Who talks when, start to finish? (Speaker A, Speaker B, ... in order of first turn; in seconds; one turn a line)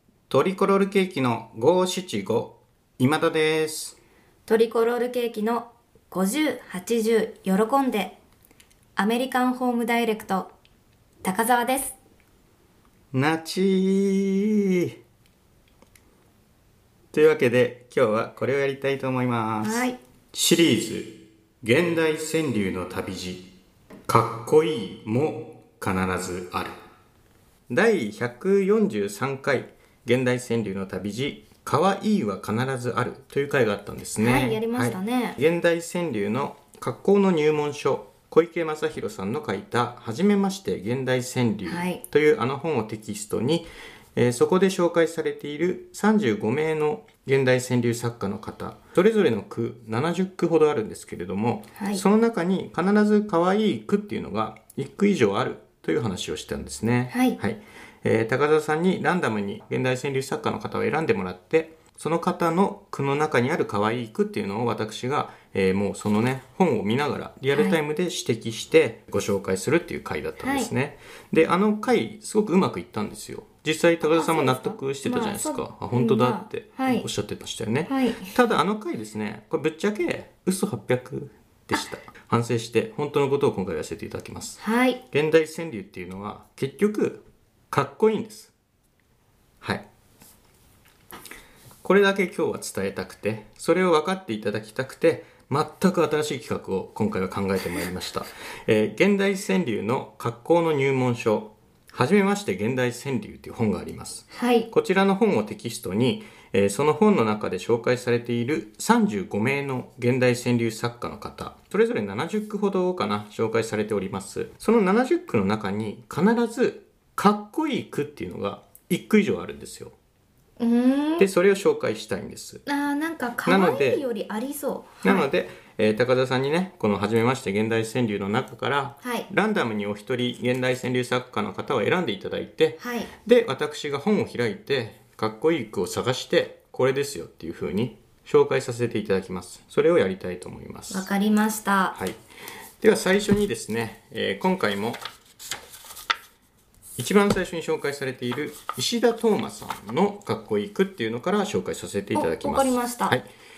Speaker A: 0.3-4.0
Speaker B: 4.5-8.2
Speaker B: 9.0-10.5
Speaker B: 11.2-12.0
Speaker A: 13.1-14.9
Speaker A: 17.1-23.5
Speaker B: 19.6-20.0
Speaker A: 24.1-26.8
Speaker A: 27.7-84.6
Speaker B: 34.2-35.4
Speaker B: 41.6-42.0
Speaker B: 51.8-52.0
Speaker B: 57.1-57.4
Speaker B: 67.5-67.8
Speaker B: 70.4-70.7
Speaker B: 74.0-77.1
Speaker B: 77.9-78.3
Speaker B: 84.6-85.0
Speaker A: 85.1-88.5
Speaker A: 89.6-89.9
Speaker A: 91.8-119.9
Speaker B: 104.3-104.7
Speaker B: 120.6-121.3
Speaker A: 121.2-122.6
Speaker B: 122.7-125.3
Speaker A: 123.5-124.0
Speaker A: 125.0-141.1
Speaker B: 129.0-129.3
Speaker B: 132.8-133.1
Speaker B: 140.9-142.0
Speaker A: 141.9-142.2
Speaker A: 142.8-145.0
Speaker A: 147.0-153.3
Speaker B: 152.2-153.2